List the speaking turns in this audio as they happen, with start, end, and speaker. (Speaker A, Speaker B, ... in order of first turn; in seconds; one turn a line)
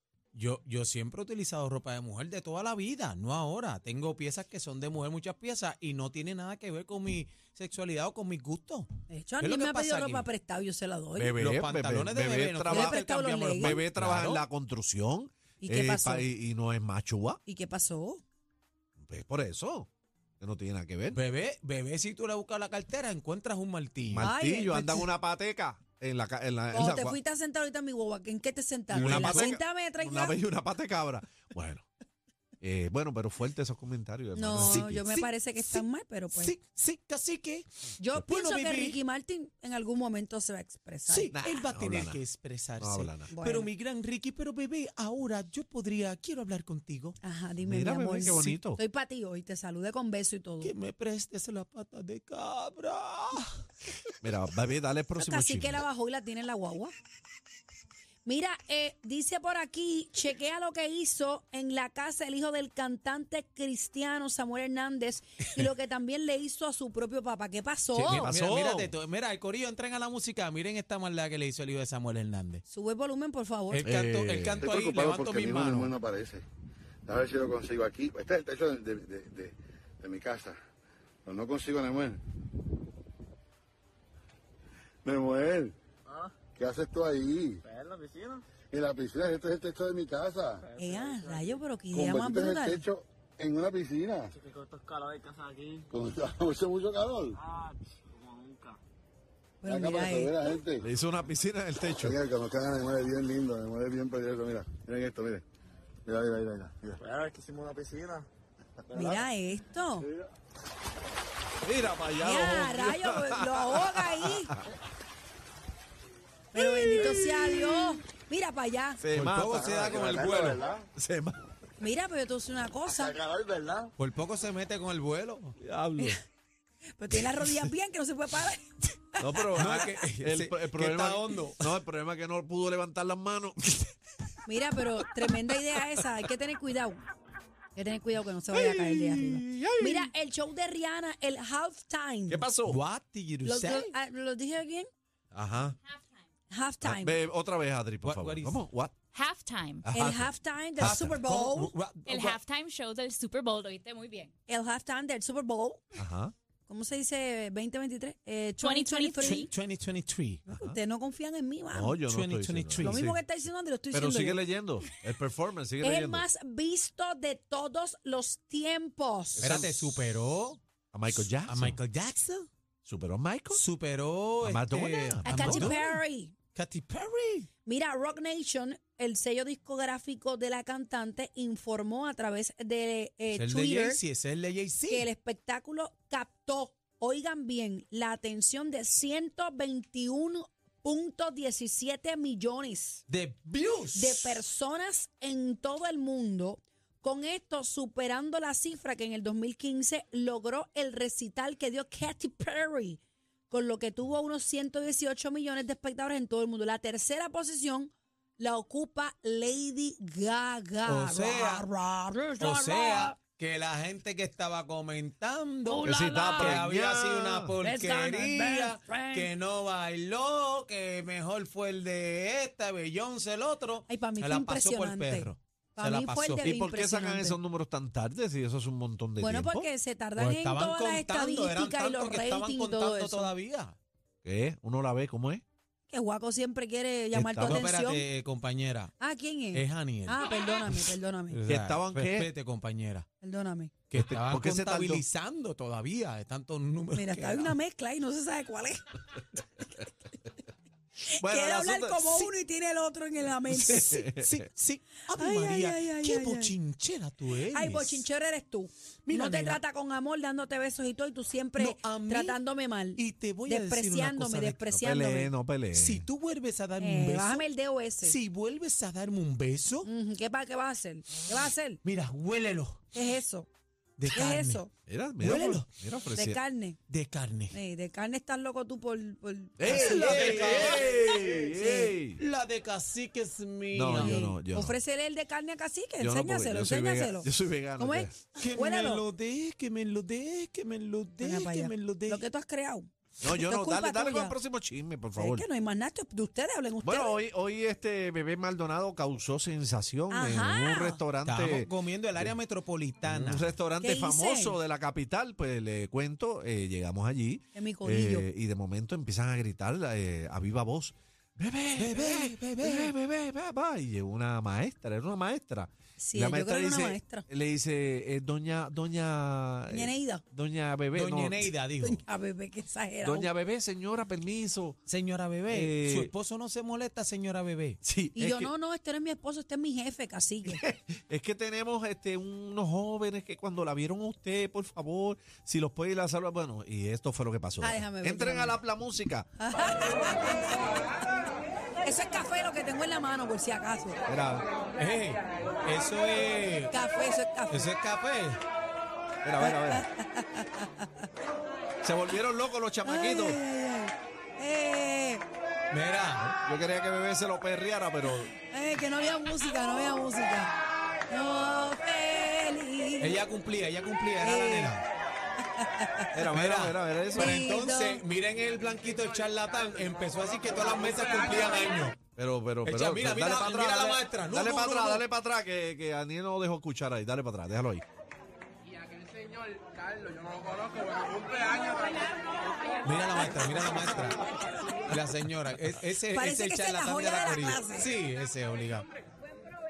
Speaker A: 0.3-8.9
Speaker B: 9.1-11.3
Speaker A: 9.4-10.3
Speaker C: 11.1-13.0
Speaker A: 11.4-14.4
Speaker B: 12.7-13.8
Speaker C: 13.5-17.4
Speaker B: 15.6-16.3
Speaker B: 17.4-18.2
Speaker C: 19.0-19.9
Speaker C: 20.4-21.2
Speaker A: 21.1-24.3
Speaker C: 24.1-27.2
Speaker B: 24.2-25.1
Speaker B: 26.7-30.4
Speaker C: 28.9-31.9
Speaker A: 28.9-29.5
Speaker C: 32.6-35.0
Speaker B: 34.3-36.5
Speaker A: 34.5-39.0
Speaker B: 38.0-41.3
Speaker A: 41.0-47.2
Speaker C: 41.3-42.2
Speaker C: 42.8-43.3
Speaker B: 43.3-43.7
Speaker B: 47.2-50.7
Speaker C: 47.6-48.8
Speaker A: 48.2-48.5
Speaker A: 50.6-53.6
Speaker C: 54.2-55.8
Speaker B: 55.2-56.9
Speaker B: 58.2-68.3
Speaker C: 67.9-68.9
Speaker A: 68.0-72.6
Speaker B: 72.7-73.8
Speaker A: 73.7-76.0
Speaker C: 73.8-74.7
Speaker D: 74.6-76.4
Speaker D: 77.0-80.6
Speaker D: 81.2-82.2
Speaker D: 85.0-85.7
Speaker D: 86.5-87.6
Speaker E: 87.6-88.4
Speaker D: 88.7-90.6
Speaker E: 90.6-91.4
Speaker B: 90.8-92.8
Speaker D: 91.9-94.3
Speaker E: 94.3-95.9
Speaker D: 95.9-97.4
Speaker E: 97.4-98.8
Speaker B: 99.6-100.4
Speaker D: 99.6-100.8
Speaker C: 100.8-102.2
Speaker D: 102.0-105.4
Speaker D: 106.0-107.0
Speaker E: 107.0-108.2
Speaker B: 108.9-110.1
Speaker C: 111.6-114.6
Speaker B: 112.2-114.6
Speaker B: 116.5-119.0
Speaker C: 116.5-118.0
Speaker C: 119.0-121.4
Speaker A: 119.1-120.6
Speaker D: 119.7-120.8
Speaker B: 121.8-123.2
Speaker D: 123.0-123.9
Speaker A: 124.0-125.6
Speaker C: 125.6-126.2
Speaker B: 127.0-129.4
Speaker C: 127.4-127.7
Speaker C: 129.2-133.9
Speaker A: 129.5-131.8
Speaker B: 134.4-137.0
Speaker C: 135.3-136.0
Speaker B: 137.7-142.4
Speaker C: 138.5-140.1
Speaker C: 142.3-142.8
Speaker A: 142.7-143.9
Speaker B: 143.4-144.9
Speaker C: 145.3-145.8
Speaker B: 146.5-147.2
Speaker C: 146.8-148.9
Speaker A: 148.0-148.6
Speaker F: 149.1-149.9
Speaker C: 149.8-151.2
Speaker B: 149.9-151.7
Speaker A: 150.8-152.4
Speaker F: 152.1-154.3
Speaker B: 154.5-155.9
Speaker C: 155.9-156.3
Speaker B: 156.7-159.5
Speaker F: 158.6-159.5
Speaker A: 159.2-160.4
Speaker B: 160.5-162.0
Speaker C: 161.7-163.2
Speaker A: 162.1-163.1
Speaker B: 162.8-164.4
Speaker C: 163.9-166.2
Speaker B: 165.8-169.6
Speaker C: 169.3-170.0
Speaker A: 169.4-170.6
Speaker C: 170.9-171.8
Speaker A: 171.4-172.5
Speaker C: 172.8-173.6
Speaker A: 173.5-176.0
Speaker C: 174.4-175.8
Speaker B: 175.2-176.3
Speaker A: 176.5-177.5
Speaker B: 177.6-184.0
Speaker A: 183.3-185.1
Speaker B: 184.9-193.0
Speaker A: 193.1-194.4
Speaker B: 193.9-213.2
Speaker A: 210.8-211.7
Speaker A: 212.4-226.5
Speaker B: 215.7-216.6
Speaker C: 215.8-217.6
Speaker B: 217.6-219.3
Speaker B: 223.9-227.4
Speaker C: 226.4-229.7
Speaker B: 229.2-233.3
Speaker A: 230.2-233.8
Speaker C: 234.2-235.4
Speaker B: 235.9-238.1
Speaker C: 237.1-237.7
Speaker A: 237.4-238.9
Speaker B: 239.0-241.4
Speaker A: 239.5-240.3
Speaker A: 241.3-243.1
Speaker C: 241.5-242.3
Speaker B: 243.2-243.7
Speaker A: 243.9-247.6
Speaker C: 243.9-245.0
Speaker B: 246.9-249.0
Speaker B: 251.0-254.1
Speaker C: 251.2-252.3
Speaker C: 253.5-254.3
Speaker A: 254.2-258.1
Speaker B: 255.2-256.6
Speaker B: 257.5-265.3
Speaker A: 259.1-259.6
Speaker A: 261.6-262.4
Speaker A: 262.9-264.6
Speaker C: 264.7-266.1
Speaker A: 265.7-267.4
Speaker B: 266.8-268.2
Speaker A: 268.0-269.9
Speaker B: 269.8-271.8
Speaker A: 271.8-272.8
Speaker B: 272.9-273.5
Speaker A: 274.0-274.6
Speaker B: 274.1-274.7
Speaker C: 274.9-276.4
Speaker A: 275.2-275.7
Speaker B: 276.1-276.8
Speaker A: 276.9-277.6
Speaker B: 277.5-281.9
Speaker C: 279.6-282.2
Speaker A: 279.6-281.3
Speaker A: 282.2-284.3
Speaker C: 283.7-284.8
Speaker B: 283.9-289.1
Speaker C: 286.0-288.1
Speaker A: 288.4-292.2
Speaker B: 291.2-294.4
Speaker C: 293.2-295.4
Speaker B: 295.2-297.2
Speaker C: 296.8-302.4
Speaker B: 300.1-301.0
Speaker A: 301.2-303.5
Speaker C: 303.0-321.5
Speaker B: 303.8-304.6
Speaker B: 307.5-308.3
Speaker A: 311.8-312.9
Speaker B: 316.0-317.3
Speaker B: 319.7-320.2
Speaker A: 320.9-322.0
Speaker B: 321.8-323.3
Speaker C: 323.0-324.8
Speaker A: 324.9-327.8
Speaker C: 325.5-326.1
Speaker C: 327.8-328.5
Speaker B: 328.1-330.6
Speaker C: 330.4-339.3
Speaker B: 337.6-338.6
Speaker B: 339.4-340.6
Speaker B: 341.8-344.0
Speaker C: 344.1-344.4
Speaker A: 344.8-346.8
Speaker B: 346.7-347.7
Speaker A: 347.5-348.4
Speaker C: 349.2-349.9
Speaker B: 349.4-351.1
Speaker C: 351.8-353.4
Speaker B: 352.8-355.2
Speaker A: 355.7-356.3
Speaker C: 356.4-358.3
Speaker B: 358.0-360.5
Speaker B: 361.1-363.2
Speaker A: 363.0-364.8
Speaker B: 364.2-364.8
Speaker B: 365.4-366.1
Speaker C: 366.1-367.4
Speaker A: 366.3-372.0
Speaker B: 367.1-368.0
Speaker C: 372.1-377.8
Speaker A: 372.6-375.0
Speaker A: 382.8-384.2
Speaker A: 384.9-388.9
Speaker B: 386.1-387.9